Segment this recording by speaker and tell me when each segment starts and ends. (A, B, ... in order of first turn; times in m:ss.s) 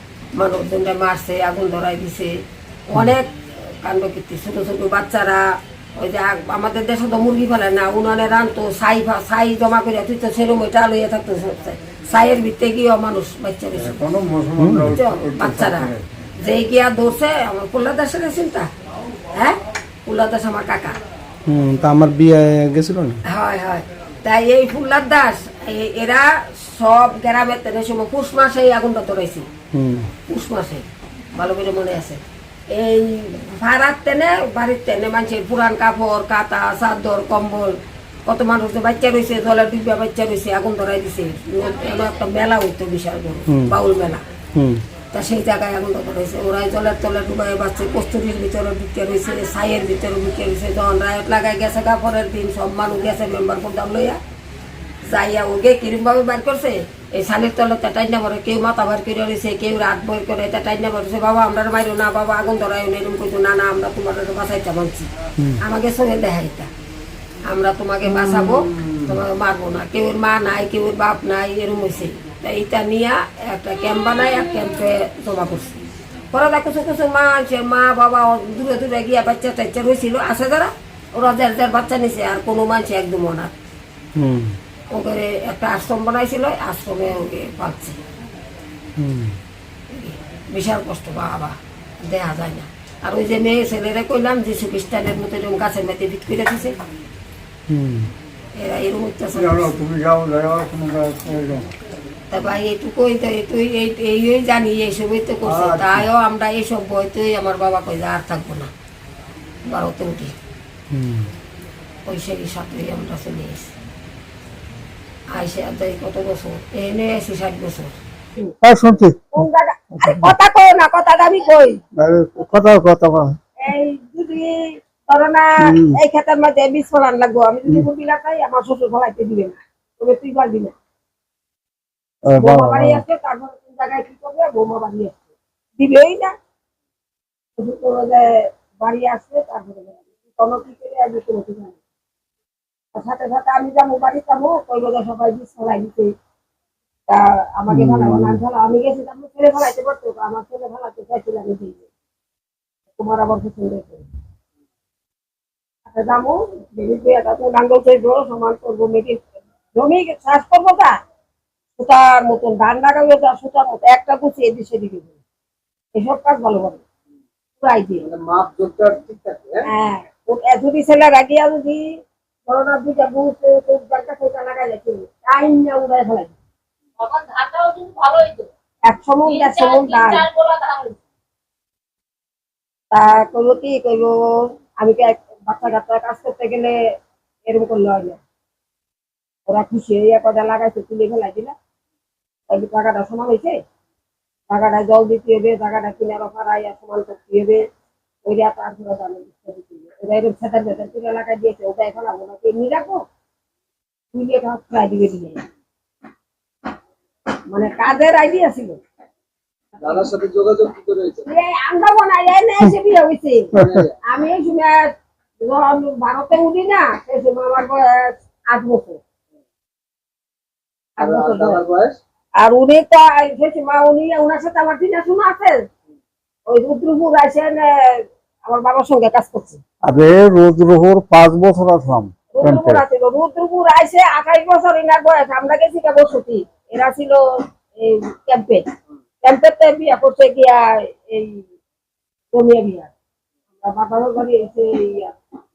0:00.4-0:14.0 A
0:13.8-0:16.0 B
0:14.6-0:15.0 C
0:15.0-0:15.9 A
0:16.4-0:18.7 A
0:19.3-0:21.0 A
0:21.5-0:23.2 C
0:23.3-0:29.5 A
0:29.7-0:30.1 C
0:30.3-0:44.2 A
0:43.5-0:43.7 C
0:44.6-0:44.8 C
0:45.1-0:54.2 A
0:55.1-1:05.1 A
1:05.6-1:06.7 A
1:07.5-1:15.8 A
1:08.0-1:09.1 B
1:16.3-1:23.5 A
1:24.2-1:24.6 C
1:24.9-1:28.0 A
1:29.0-1:29.4 C
1:29.9-1:36.8 A
1:37.7-1:38.1 C
1:38.6-1:39.7 A
1:39.4-1:41.7 B
1:42.3-1:48.7 A
1:45.4-1:46.1 B
1:49.7-1:50.4 A
1:50.9-1:51.3 C
1:52.1-1:53.7 A
1:55.3-1:58.0 A
1:58.6-1:59.4 B
1:59.4-2:01.8 A
2:00.0-2:00.3 B
2:02.0-2:03.4 B
2:03.7-2:04.6 A
2:05.1-2:10.7 A
2:05.6-2:06.0 B
2:12.2-2:13.0 B
2:12.4-2:15.2 A
2:15.8-2:16.3 A
2:17.6-2:21.8 A
2:22.9-2:26.1 A
2:27.1-2:31.8 A
2:27.7-2:28.4 B
2:33.0-2:34.1 A
2:35.9-2:39.2 A
2:39.8-2:41.0 A
2:41.8-2:45.1 A
2:46.0-2:46.8 A
2:47.6-2:48.0 A
2:48.0-2:49.6 D
2:49.7-2:51.8 A
2:52.5-2:56.3 A
2:57.0-2:58.5 E
2:58.9-3:00.3 A
2:59.3-3:01.0 E
3:02.9-3:04.2 A
3:04.8-3:06.8 A
3:07.5-3:08.2 A
3:09.5-3:11.5 A
3:12.5-3:13.6 A
3:14.5-3:17.6 A
3:18.2-3:23.0 A
3:24.1-3:25.4 A
3:27.5-3:28.8 A
3:29.8-3:31.3 D
3:31.3-3:33.5 A
3:33.6-3:33.9 D
3:34.1-3:34.9 A
3:35.4-3:39.0 A
3:41.0-3:42.0 D
3:41.0-3:41.6 A
3:42.4-3:45.6 A
3:46.5-3:49.6 A
3:49.8-3:52.8 B
3:52.4-3:57.2 A
3:57.8-3:58.6 A
3:59.2-4:01.4 A
4:02.3-4:02.9 A
4:03.6-4:05.1 A